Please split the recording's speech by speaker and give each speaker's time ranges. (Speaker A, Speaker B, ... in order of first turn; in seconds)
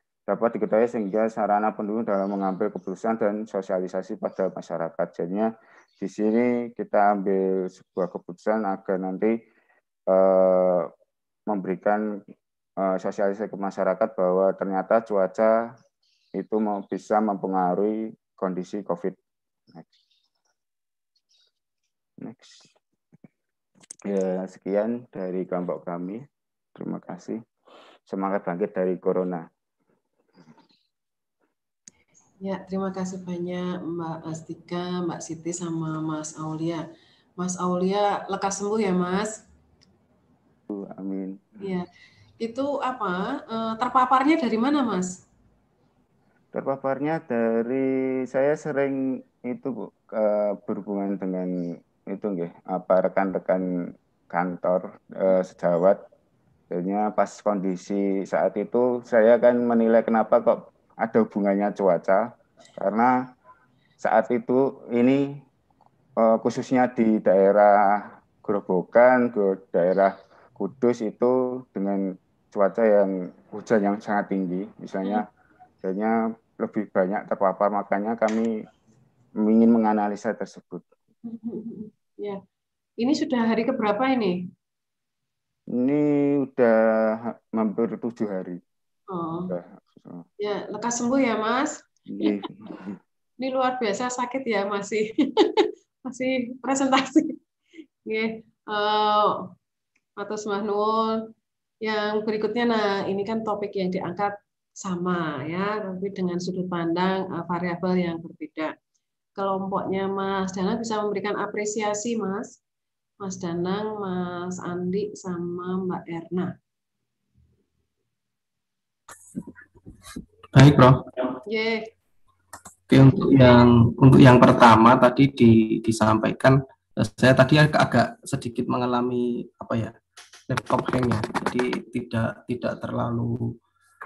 Speaker A: 0.3-9.3, 10.1-10.9, 11.5-12.0, 12.8-15.7, 16.3-19.2, 22.2-22.7, 24.1-26.2, 26.8-27.4, 28.1-29.5, 40.7-41.7, 46.5-51.5, 52.0-53.7, 54.3-56.0, 56.7-63.1, 64.0-65.2, 66.2-75.3, 75.8-78.7, 79.4-80.8, 85.7-88.6, 89.5-90.2, 92.1-93.0
Speaker B: 32.4-36.8, 37.4-39.4, 41.6-41.9, 42.4-45.2, 81.2-82.4, 83.0-84.5, 89.1-89.5, 90.4-92.5, 93.4-97.4, 98.0-99.5, 100.2-101.2, 101.8-108.7, 109.4-112.5, 113.2-116.5, 121.5-121.9
Speaker C: 120.5-121.3, 122.9-129.9, 130.5-133.5